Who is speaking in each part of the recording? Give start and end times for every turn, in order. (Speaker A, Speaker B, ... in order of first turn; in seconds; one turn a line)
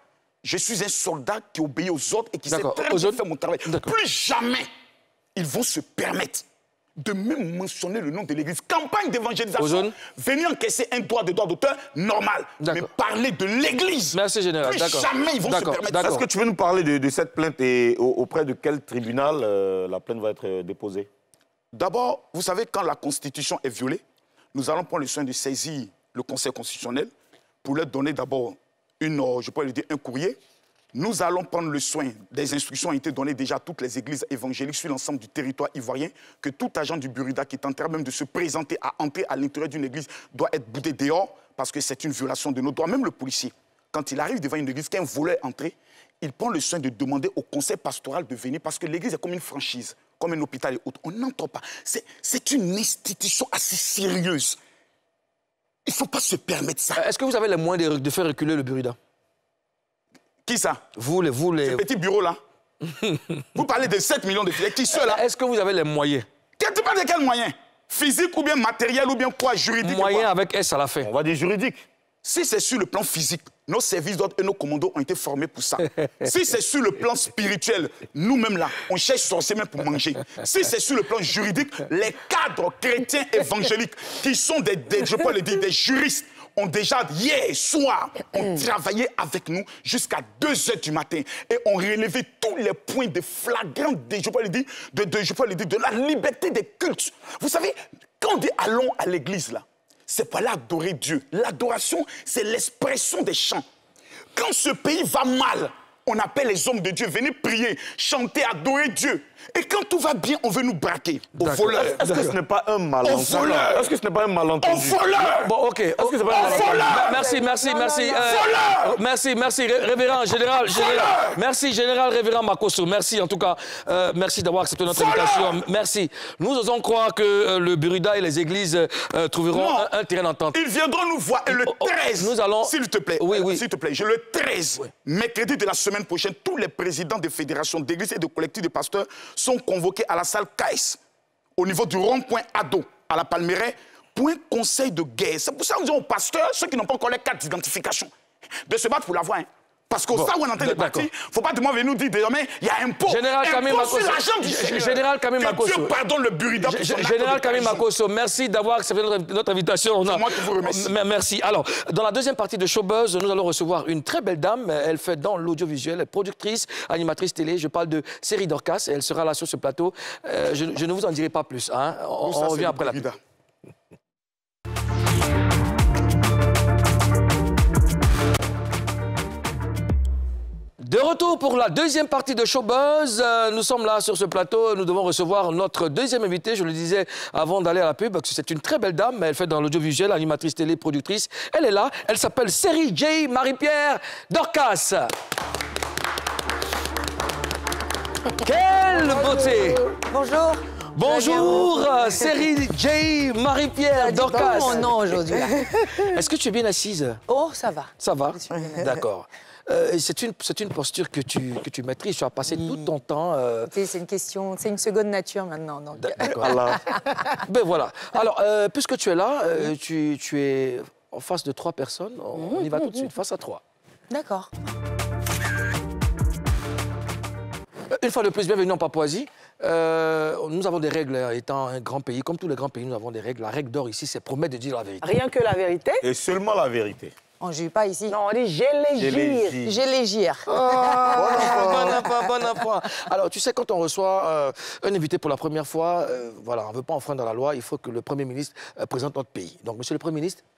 Speaker A: 0.4-4.7
Speaker B: 2.5-3.9
Speaker A: 5.3-6.4
Speaker A: 7.0-16.2
Speaker B: 9.6-9.9
Speaker B: 12.6-12.9
Speaker B: 14.1-16.2
Speaker C: 15.9-21.1
Speaker A: 21.7-24.0
Speaker A: 24.5-27.1
Speaker A: 27.6-30.4
Speaker A: 30.9-54.6
Speaker A: 55.9-57.0
Speaker B: 57.0-59.0
Speaker A: 60.5-60.8
Speaker B: 61.0-61.8
Speaker A: 61.6-62.4
Speaker B: 62.9-63.4
Speaker A: 63.5-65.2
Speaker B: 64.9-66.3
Speaker A: 66.6-70.3
Speaker B: 69.8-71.1
Speaker C: 71.0-71.9
Speaker A: 72.2-103.6
Speaker A: 104.3-112.0
Speaker B: 111.4-112.3
Speaker C: 111.7-115.0
Speaker A: 113.0-113.9
Speaker A: 114.6-115.5
Speaker B: 115.3-130.6
Speaker C: 116.0-116.8
Speaker A: 116.3-117.2
Speaker D: 116.3-118.6
Speaker A: 118.2-119.0
Speaker A: 120.7-121.4
Speaker A: 124.9-125.6
Speaker A: 129.5-129.9
Speaker A: 130.5-141.0
Speaker B: 131.5-133.6
Speaker A: 141.6-148.1
Speaker A: 148.7-157.8
Speaker B: 150.1-151.1
Speaker B: 153.1-155.9
Speaker B: 156.6-173.0
Speaker A: 160.0-160.9
Speaker A: 172.2-173.2
Speaker B: 180.8-195.1
Speaker B: 198.4-199.8
Speaker D: 198.9-199.9
Speaker E: 200.1-202.3
Speaker B: 200.9-204.9
Speaker E: 203.9-205.8
Speaker D: 204.3-204.7
Speaker D: 205.4-205.7
Speaker B: 206.0-207.2
Speaker E: 207.3-209.0
Speaker B: 208.0-213.7
Speaker E: 212.5-212.8
Speaker E: 213.7-217.4
Speaker B: 216.0-216.8
Speaker C: 216.3-216.8
Speaker B: 217.4-223.6
Speaker E: 224.1-224.5
Speaker B: 227.9-235.1
Speaker D: 235.0-236.0
Speaker C: 236.0-237.1
Speaker E: 237.4-238.2
Speaker D: 238.1-239.6
Speaker C: 238.9-239.8
Speaker E: 239.6-241.8
Speaker D: 240.5-241.9
Speaker C: 241.1-242.0
Speaker B: 241.2-250.4